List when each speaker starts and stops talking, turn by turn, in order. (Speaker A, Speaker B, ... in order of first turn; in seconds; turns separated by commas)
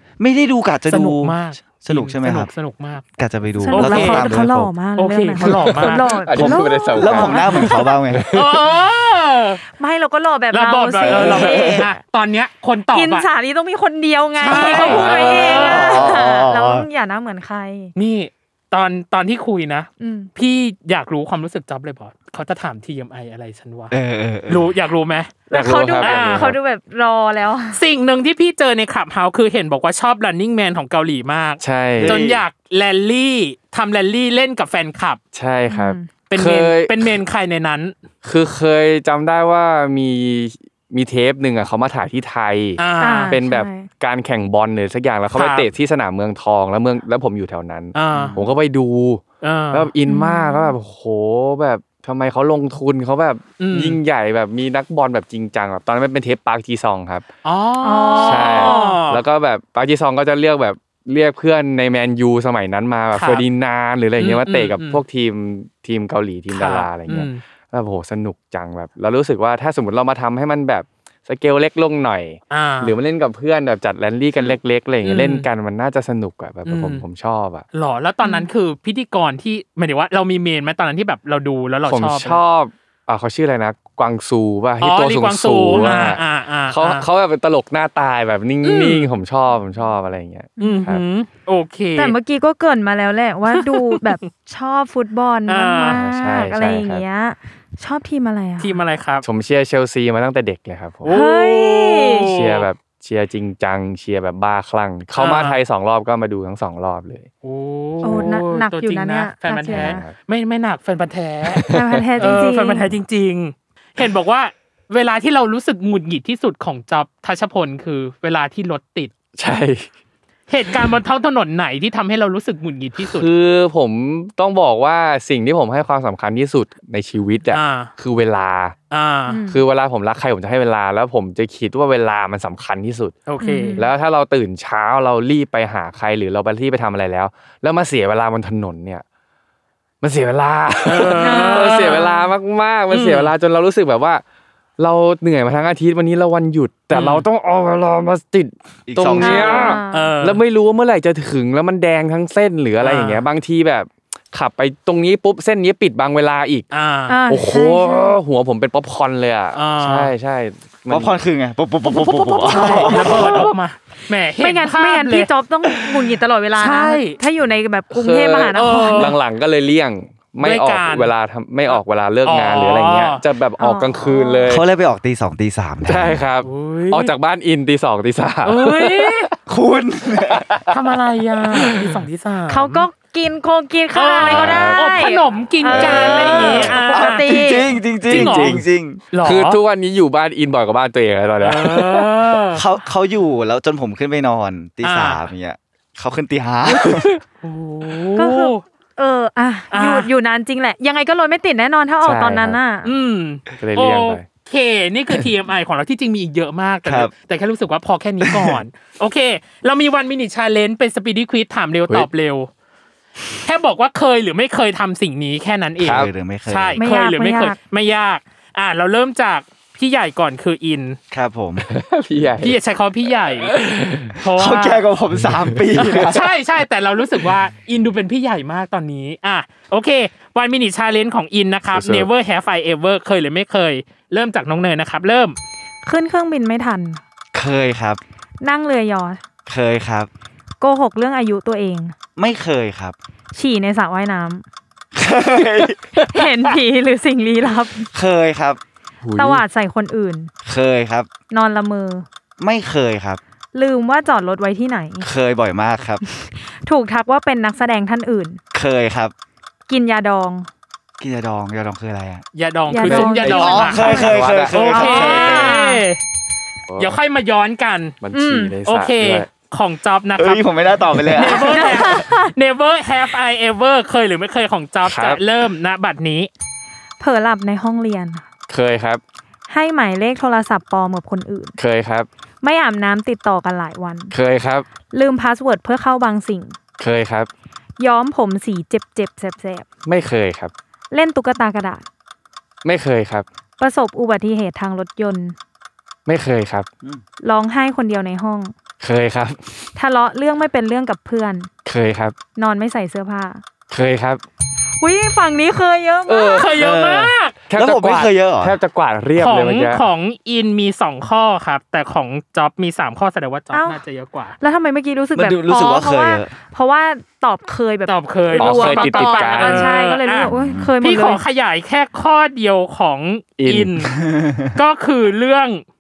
Speaker A: 0.2-2.5, Speaker B: 0.9-3.0, Speaker A: 3.2-4.7, Speaker C: 3.6-7.7, Speaker B: 3.7-4.3, Speaker B: 5.0-6.1, Speaker D: 5.4-8.7, Speaker A: 6.3-8.2, Speaker B: 8.3-9.6, Speaker C: 9.8-12.0, Speaker B: 10.5-13.3, Speaker A: 11.0-11.9, Speaker C: 12.9-17.9, Speaker B: 14.4-16.1, Speaker D: 14.5-15.6, Speaker A: 14.5-16.9, Speaker B: 18.0-23.9, Speaker C: 20.0-20.3, Speaker A: 23.9-24.7, Speaker B: 24.5-26.5, Speaker C: 25.5-27.8, Speaker D: 25.5-26.6, Speaker B: 27.7-35.2, Speaker D: 31.6-32.3, Speaker A: 32.0-32.4, Speaker D: 35.3-37.2, Speaker C: 35.7-36.1, Speaker B: 36.3-38.0, Speaker D: 38.2-57.3, Speaker B: 42.8-43.4, Speaker C: 43.0-43.9, Speaker B: 45.3-45.7, Speaker B: 48.0-48.4, Speaker A: 48.1-48.5, Speaker B: 49.4-49.9, Speaker C: 50.0-50.8, Speaker B: 53.6-54.0, Speaker B: 57.4-59.2, Speaker C: 57.8-59.0, Speaker D: 58.1-77.7, Speaker B: 63.1-63.5, Speaker B: 64.2-65.0, Speaker B: 66.5-67.4, Speaker B: 72.5-73.0, Speaker B: 75.0-75.5, Speaker B: 76.7-77.0, Speaker B: 77.7-82.4, Speaker C: 78.2-78.5, Speaker D: 81.9-91.0, Speaker B: 84.8-87.1, Speaker C: 85.8-86.1, Speaker B: 88.6-89.1, Speaker C: 90.6-90.9, Speaker B: 90.6-92.2, Speaker C: 92.0-98.8, Speaker B: 93.5-94.1, Speaker B: 95.5-96.0, Speaker D: 95.8-97.0, Speaker B: 98.6-99.3, Speaker D: 99.2-101.2, Speaker B: 101.0-102.7, Speaker C: 101.1-102.3, Speaker D: 102.3-107.3, Speaker B: 105.1-105.6, Speaker B: 107.4-111.6, Speaker C: 108.0-110.0, Speaker D: 109.7-110.2, Speaker D: 111.5-112.4, Speaker C: 111.7-112.9, Speaker B: 112.2-119.1, Speaker D: 119.4-119.9, Speaker B: 120.5-123.3, Speaker D: 123.0-128.8, Speaker B: 127.5-127.9, Speaker B: 128.9-129.4, Speaker C: 129.3-129.6, Speaker D: 129.5-133.2, Speaker B: 133.3-133.8, Speaker C: 133.4-133.9, Speaker D: 133.8-139.0, Speaker D: 140.0-144.2, Speaker B: 140.8-142.2, Speaker C: 141.2-142.3, Speaker B: 142.9-143.3, Speaker D: 144.8-156.7, Speaker B: 146.9-147.3, Speaker A: 148.9-149.8, Speaker C: 149.1-150.1, Speaker B: 149.9-150.4, Speaker B: 152.8-153.2, Speaker B: 156.7-157.2, Speaker C: 157.1-158.2, Speaker D: 157.3-161.2, Speaker B: 159.5-160.1, Speaker A: 160.9-163.5, Speaker B: 162.2-167.2, Speaker C: 162.5-163.5, Speaker C: 164.4-169.2, Speaker D: 167.9-174.7, Speaker B: 168.6-169.2, Speaker B: 170.4-171.1, Speaker B: 171.7-173.2, Speaker C: 173.6-174.5, Speaker A: 174.5-176.2, Speaker D: 175.9-179.3, Speaker B: 176.4-177.1, Speaker B: 178.4-179.3, Speaker A: 179.5-180.5, Speaker D: 180.3-180.8, Speaker B: 180.7-182.9, Speaker D: 181.5-181.8, Speaker C: 182.5-187.7, Speaker B: 183.9-187.4, Speaker D: 184.3-184.8, Speaker A: 185.7-189.0, Speaker D: 188.1-188.7, Speaker B: 188.1-189.6, Speaker D: 189.2-192.4, Speaker B: 191.4-192.7, Speaker A: 192.5-197.1, Speaker B: 194.8-195.2, Speaker B: 197.4-198.6, Speaker C: 198.2-202.9, Speaker B: 199.7-200.1, Speaker D: 202.0-202.6, Speaker B: 202.8-212.5, Speaker D: 203.6-204.2, Speaker A: 206.8-207.1, Speaker A: 208.2-208.6, Speaker B: 213.4-221.0, Speaker D: 215.8-216.1, Speaker A: 215.8-216.8, Speaker C: 216.8-217.6, Speaker A: 221.1-221.7, Speaker D: 221.6-222.6, Speaker B: 222.4-223.5, Speaker D: 223.4-224.2, Speaker B: 224.2-224.8, Speaker A: 224.3-226.3, Speaker D: 225.2-226.2, Speaker B: 225.8-235.4, Speaker D: 231.7-232.1, Speaker C: 235.8-237.0, Speaker A: 237.3-238.0, Speaker C: 238.4-239.2, Speaker A: 239.5-240.1, Speaker C: 240.6-241.9, Speaker A: 242.2-243.0, Speaker C: 243.3-244.5, Speaker A: 244.9-245.8, Speaker C: 246.0-247.9, Speaker A: 247.9-248.6, Speaker D: 249.0-249.4, Speaker C: 249.2-250.3, Speaker A: 250.4-251.1, Speaker C: 251.3-252.1, Speaker A: 252.4-253.2, Speaker C: 253.5-255.1, Speaker A: 255.0-256.0, Speaker C: 256.1-258.4, Speaker A: 258.5-259.1, Speaker C: 259.7-260.5, Speaker A: 261.0-262.2, Speaker B: 262.4-264.0, Speaker C: 262.7-264.2, Speaker D: 262.8-264.9, Speaker A: 263.2-265.6, Speaker B: 264.5-266.0, Speaker C: 264.8-265.9, Speaker D: 266.7-267.0, Speaker B: 266.8-268.0, Speaker D: 268.0-269.3, Speaker C: 268.1-268.6, Speaker B: 268.7-270.4, Speaker A: 270.2-272.0, Speaker B: 271.0-276.3, Speaker C: 271.2-272.3, Speaker D: 274.8-275.2, Speaker C: 277.0-278.3, Speaker D: 278.5-279.0, Speaker C: 279.5-281.6, Speaker D: 281.6-282.1, Speaker C: 282.4-284.1, Speaker D: 284.1-284.7, Speaker C: 284.9-286.6, Speaker D: 286.8-287.3, Speaker C: 287.8-289.7, Speaker D: 289.9-290.5, Speaker C: 290.9-291.9, Speaker D: 292.6-293.3, Speaker C: 293.6-295.4, Speaker D: 296.1-296.7, Speaker C: 297.2-298.5, Speaker D: 298.8-299.5, Speaker C: 299.8-301.5, Speaker D: 301.6-302.2, Speaker C: 302.4-303.4, Speaker D: 303.7-304.2, Speaker C: 304.8-306.5, Speaker D: 306.1-306.6, Speaker B: 306.3-307.4, Speaker A: 306.6-308.6, Speaker D: 307.5-309.8, Speaker B: 309.2-314.4, Speaker C: 313.5-313.8, Speaker C: 314.4-321.2, Speaker A: 315.1-316.3, Speaker B: 317.9-320.3, Speaker D: 318.4-319.7, Speaker A: 320.2-320.7, Speaker B: 320.8-323.9, Speaker D: 323.4-323.9, Speaker A: 324.0-324.6, Speaker B: 324.6-325.6